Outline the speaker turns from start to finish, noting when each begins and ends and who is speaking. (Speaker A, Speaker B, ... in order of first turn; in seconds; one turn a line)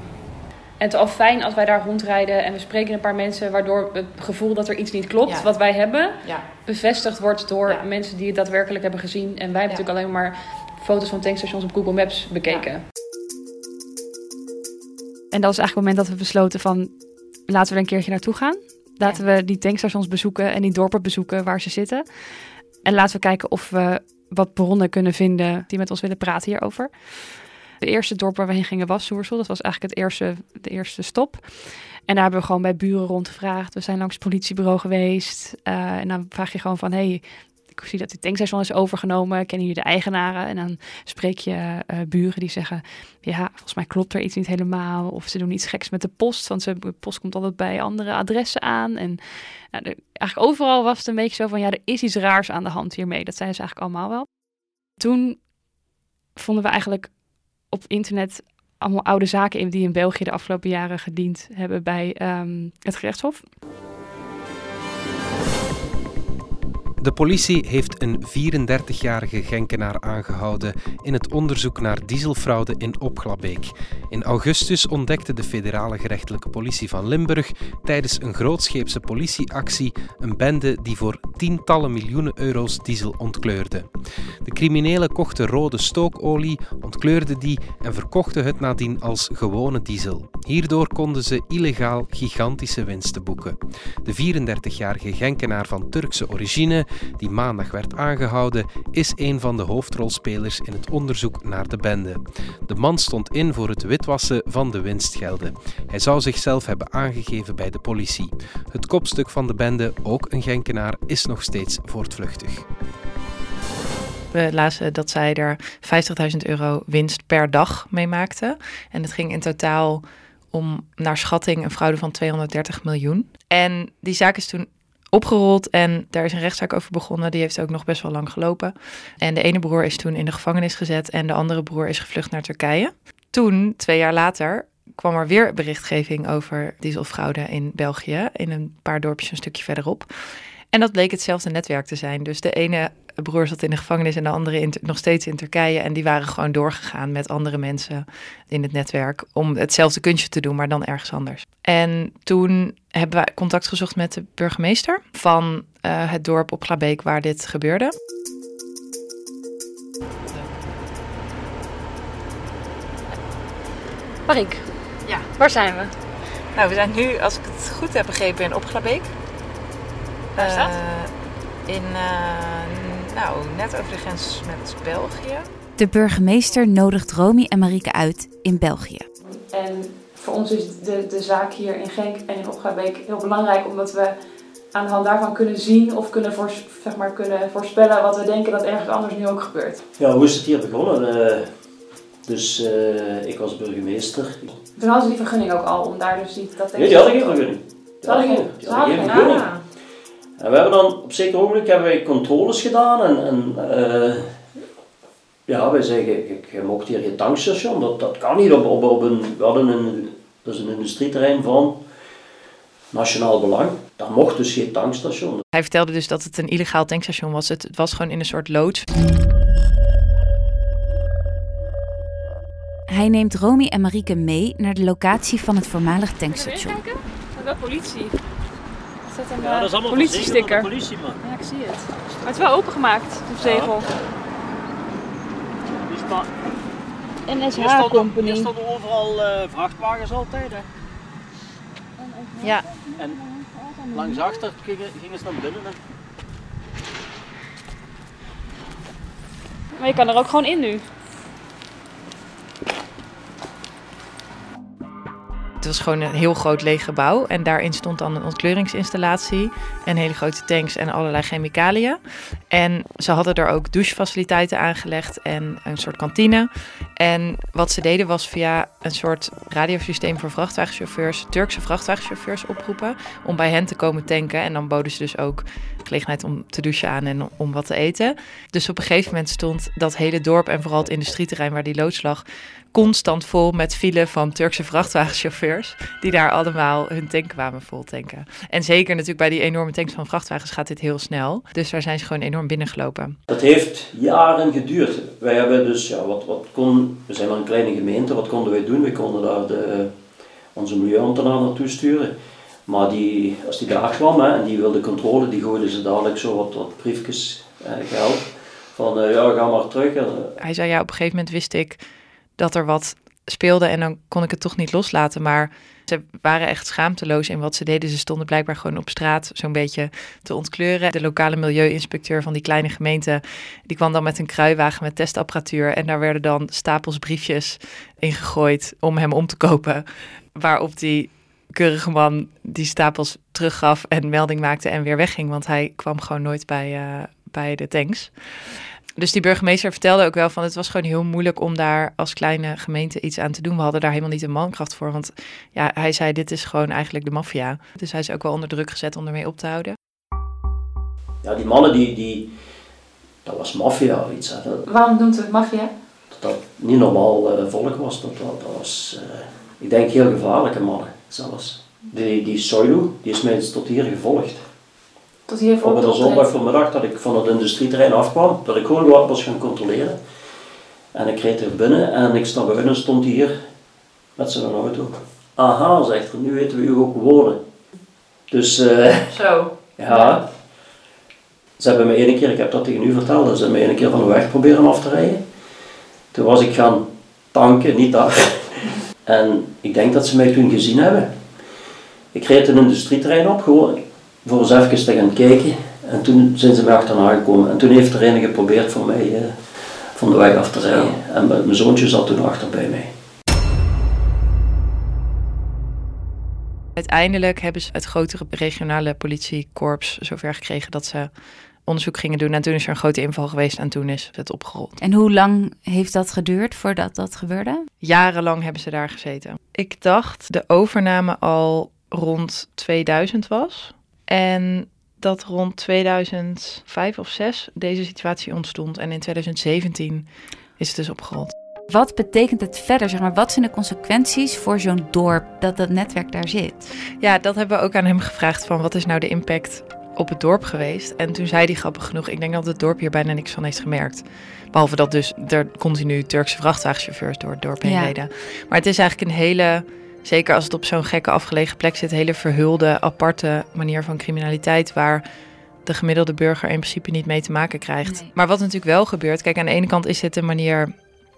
Speaker A: 0.8-12.8
Speaker B: 5.2-5.5
Speaker A: 15.3-16.9
Speaker A: 17.5-54.4
Speaker A: 55.0-55.5
Speaker A: 56.4-63.5
Speaker C: 67.0-83.9
Speaker C: 84.5-112.7
Speaker B: 114.3-140.1
Speaker B: 140.7-157.9
Speaker B: 160.3-160.6
Speaker A: 164.3-164.7
Speaker A: 165.4-165.9
Speaker B: 166.5-169.1
Speaker B: 170.4-171.1
Speaker A: 170.4-170.7
Speaker B: 171.7-175.5
Speaker D: 175.8-179.1
Speaker A: 179.3-184.1
Speaker A: 184.7-189.8
Speaker E: 190.0-191.5
Speaker E: 192.3-194.6
Speaker A: 194.8-197.4
Speaker E: 196.8-199.6
Speaker A: 198.1-199.6
Speaker E: 200.4-204.3
Speaker E: 205.5-211.8
Speaker E: 212.9-215.4
Speaker B: 215.5-218.9
Speaker D: 222.9-226.8
Speaker A: 226.3-228.2
Speaker A: 229.1-233.9
Speaker E: 229.4-231.1
Speaker E: 235.9-236.3
Speaker A: 237.3-238.5
Speaker E: 237.7-237.9
Speaker E: 238.5-240.6
Speaker A: 242.0-244.4
Speaker B: 242.4-242.7
Speaker E: 244.0-245.8
Speaker A: 249.8-250.9
Speaker B: 255.6-262.0
Speaker B: 262.5-293.2
Speaker E: 293.3-299.9
Speaker E: 300.5-302.1
Speaker E: 302.7-310.4
Speaker B: 310.4-311.8
Speaker B: 312.4-338.1
Speaker B: 339.0-349.8
Speaker E: 351.2-352.3
Speaker E: 353.2-354.6
Speaker A: 354.7-355.7
Speaker E: 356.1-364.4
Speaker A: 365.3-366.2
Speaker E: 365.6-370.0
Speaker E: 370.9-373.3
Speaker E: 374.2-377.4
Speaker E: 378.3-380.3
Speaker E: 381.6-385.2
Speaker E: 386.1-391.1
Speaker E: 392.1-402.9
Speaker B: 406.8-411.1
Speaker B: 411.7-414.8
Speaker D: 414.8-417.7
Speaker B: 417.8-431.3
Speaker D: 431.7-436.7
Speaker B: 437.0-455.0
Speaker D: 447.6-447.9
Speaker B: 455.6-460.7
Speaker D: 457.8-458.1